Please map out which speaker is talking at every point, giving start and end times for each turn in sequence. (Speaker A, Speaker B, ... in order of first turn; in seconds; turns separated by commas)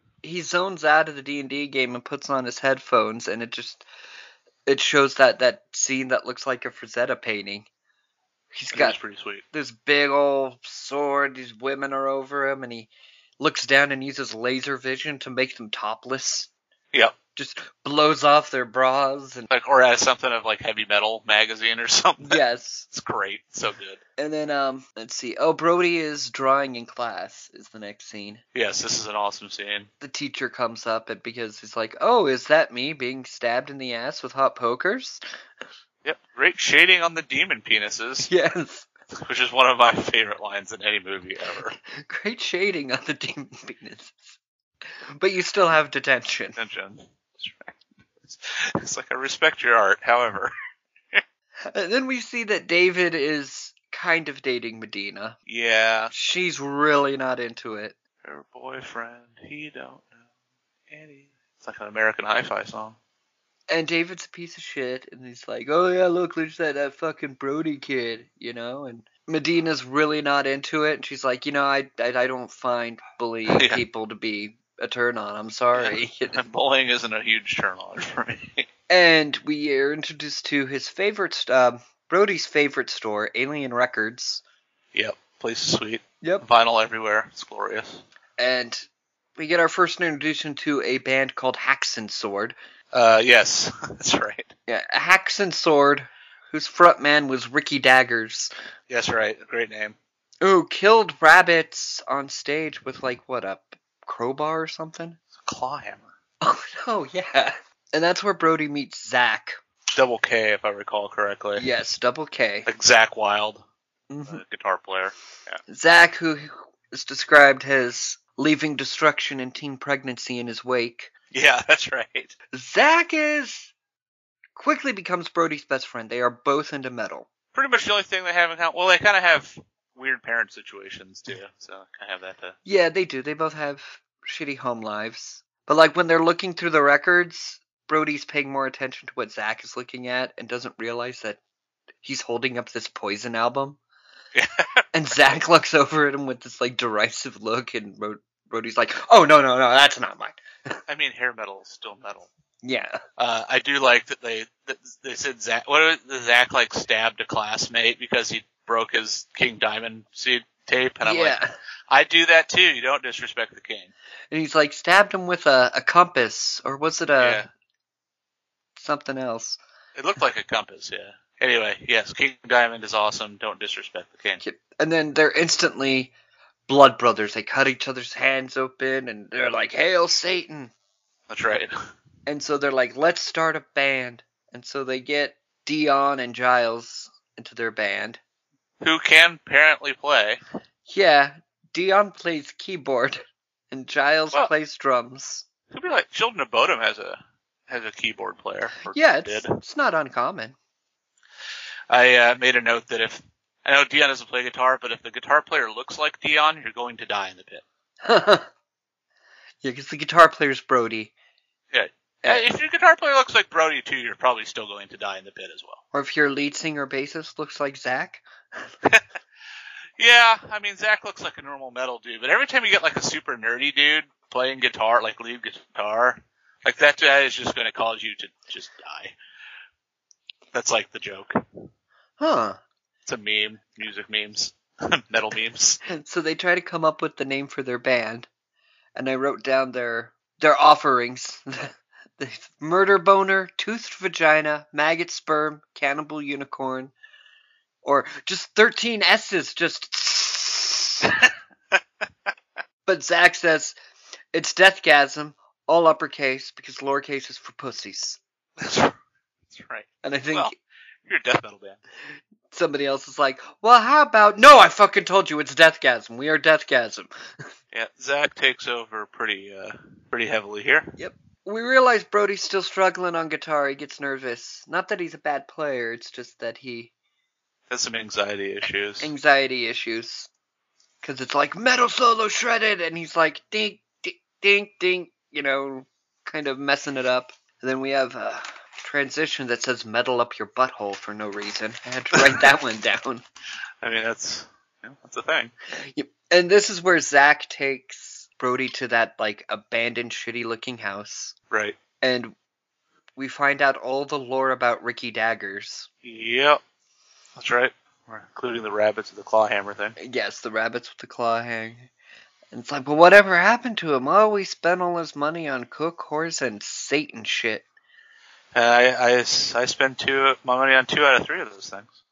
Speaker A: 0.2-3.9, Speaker A: 4.7-7.7, Speaker A: 8.5-9.0, Speaker B: 8.7-9.4, Speaker A: 9.5-16.5, Speaker B: 16.9-17.2, Speaker A: 17.4-19.5, Speaker B: 19.5-22.4, Speaker A: 22.2-22.9, Speaker B: 22.9-24.0, Speaker A: 24.2-28.4, Speaker B: 28.5-29.9, Speaker A: 30.0-35.2, Speaker B: 36.0-38.3, Speaker A: 38.3-38.9, Speaker B: 39.1-41.8, Speaker A: 42.0-44.4, Speaker A: 45.2-46.6, Speaker B: 46.5-50.5, Speaker A: 51.7-55.4, Speaker B: 55.5-56.1, Speaker A: 56.1-58.0, Speaker B: 58.2-60.2, Speaker B: 60.9-63.0, Speaker A: 63.7-76.4, Speaker B: 73.5-73.8, Speaker B: 75.7-78.7, Speaker A: 78.9-84.4, Speaker B: 84.9-88.0, Speaker A: 88.4-92.5, Speaker B: 92.9-94.5, Speaker A: 94.7-98.5, Speaker B: 98.9-100.0, Speaker A: 100.4-105.2, Speaker B: 105.3-106.1, Speaker A: 106.4-109.6, Speaker B: 109.9-111.7, Speaker A: 111.5-112.7, Speaker B: 112.7-113.6, Speaker A: 114.1-114.4, Speaker B: 114.2-115.6, Speaker A: 115.7-121.1, Speaker B: 121.3-122.3, Speaker A: 122.5-123.7, Speaker A: 124.5-127.3, Speaker B: 127.5-132.6, Speaker A: 132.6-141.4, Speaker A: 142.0-143.8, Speaker B: 144.3-145.3, Speaker A: 144.9-150.8, Speaker B: 150.9-152.3, Speaker A: 152.6-153.0, Speaker B: 153.2-161.4, Speaker A: 161.0-161.5, Speaker B: 161.9-163.9, Speaker A: 164.3-167.4, Speaker B: 167.2-167.5, Speaker A: 168.8-169.6, Speaker B: 169.9-174.4, Speaker A: 174.4-176.1, Speaker A: 176.7-180.7, Speaker B: 181.3-181.7, Speaker A: 182.2-188.2, Speaker B: 188.8-190.4, Speaker A: 190.9-195.4, Speaker B: 195.7-199.6, Speaker A: 198.9-200.6, Speaker B: 201.9-207.6, Speaker A: 208.0-208.5, Speaker A: 209.6-211.1, Speaker B: 211.7-215.8, Speaker A: 212.2-212.5, Speaker A: 215.9-218.7, Speaker B: 220.0-229.2, Speaker B: 230.5-231.4, Speaker A: 232.2-232.6, Speaker B: 233.1-235.8, Speaker A: 235.9-238.3, Speaker A: 238.9-246.9, Speaker A: 247.8-251.1, Speaker B: 251.0-252.3, Speaker A: 252.8-253.8, Speaker A: 254.3-258.2, Speaker B: 258.6-259.0, Speaker B: 259.5-260.5, Speaker A: 260.0-260.5, Speaker B: 261.0-261.8, Speaker A: 262.5-267.1, Speaker B: 267.7-270.9, Speaker A: 271.0-276.9, Speaker B: 277.7-279.1, Speaker A: 279.0-280.3, Speaker A: 281.0-293.2, Speaker B: 292.1-292.5, Speaker B: 293.8-295.5, Speaker A: 295.8-301.3, Speaker B: 301.5-301.8, Speaker A: 302.0-302.3, Speaker A: 303.1-305.9, Speaker B: 306.0-306.6, Speaker B: 307.3-309.9, Speaker A: 310.0-311.9, Speaker A: 312.5-317.6, Speaker B: 318.5-321.9